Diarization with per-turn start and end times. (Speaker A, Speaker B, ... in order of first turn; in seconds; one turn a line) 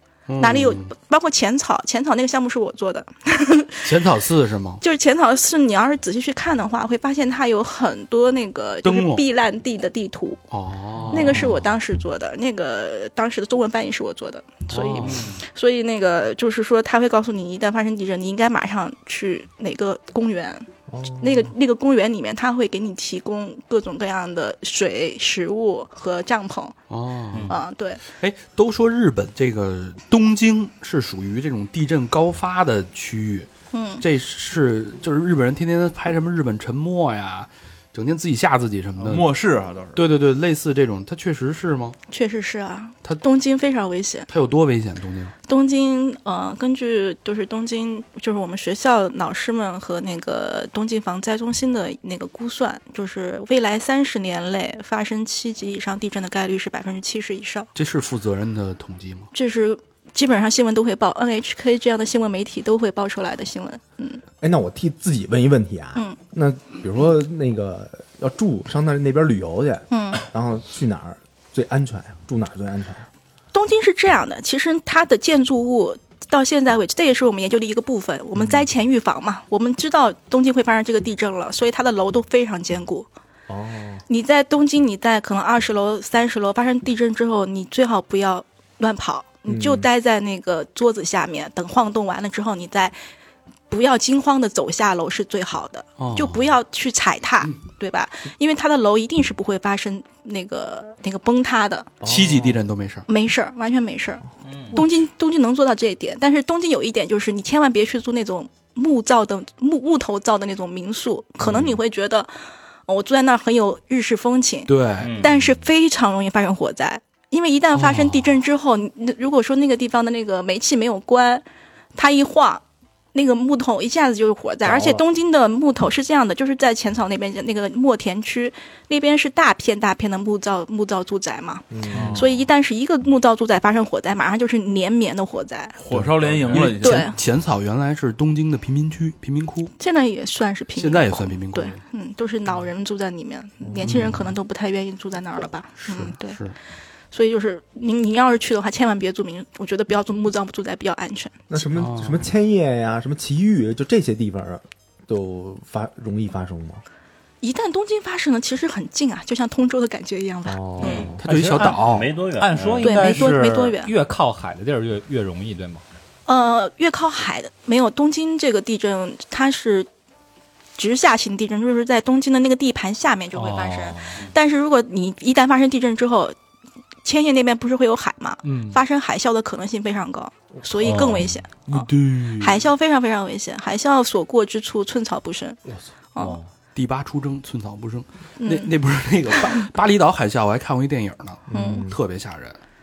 Speaker A: 0.3-0.9
Speaker B: 0.4-3.9
Speaker A: 3.8-4.8
Speaker B: 4.8-10.4
Speaker A: 8.8-9.2
Speaker A: 10.5-11.6
Speaker B: 11.1-20.7
Speaker A: 14.7-15.3
Speaker C: 15.1-15.3
Speaker D: 20.9-21.5
Speaker B: 21.2-26.8
Speaker A: 26.9-27.5
Speaker B: 27.5-28.0
Speaker A: 28.2-33.5
Speaker B: 33.7-34.0
Speaker A: 34.0-39.3
Speaker E: 39.0-40.1
Speaker A: 40.0-42.0
Speaker B: 42.1-44.3
Speaker A: 44.3-45.3
Speaker B: 45.5-57.7
Speaker A: 57.7-59.3
Speaker B: 59.3-64.2
Speaker D: 64.4-73.1
Speaker B: 69.9-70.2
Speaker B: 73.5-83.1
Speaker D: 83.5-84.0
Speaker B: 84.1-93.0
Speaker D: 89.5-89.9
Speaker B: 93.7-101.9
Speaker A: 96.0-96.5
Speaker D: 102.0-102.6
Speaker A: 102.0-103.0
Speaker B: 103.1-112.3
Speaker C: 104.4-104.8
Speaker B: 112.9-122.6
Speaker A: 114.7-115.2
Speaker C: 115.0-115.3
Speaker A: 117.8-118.2
Speaker B: 123.1-135.8
Speaker D: 124.6-125.0
Speaker D: 131.7-132.2
Speaker E: 131.9-132.3
Speaker E: 135.8-137.1
Speaker A: 135.9-139.7
Speaker B: 136.6-137.1
Speaker B: 139.8-146.4
Speaker A: 140.8-141.8
Speaker D: 143.6-144.1
Speaker A: 143.9-144.2
Speaker A: 145.8-146.5
Speaker B: 147.1-151.3
Speaker D: 151.5-156.8
Speaker A: 151.7-152.3
Speaker B: 157.4-161.1
Speaker D: 160.4-161.2
Speaker C: 160.8-163.5
Speaker A: 161.2-162.1
Speaker F: 161.2-165.8
Speaker B: 162.8-163.9
Speaker B: 166.3-169.9
Speaker B: 170.8-176.3
Speaker F: 173.3-174.2
Speaker B: 177.0-185.6
Speaker F: 178.4-178.8
Speaker C: 180.8-181.4
Speaker A: 181.7-182.6
Speaker C: 186.2-186.5
Speaker A: 186.7-192.6
Speaker B: 188.4-188.7
Speaker B: 189.4-189.7
Speaker D: 191.5-192.0
Speaker B: 191.5-191.9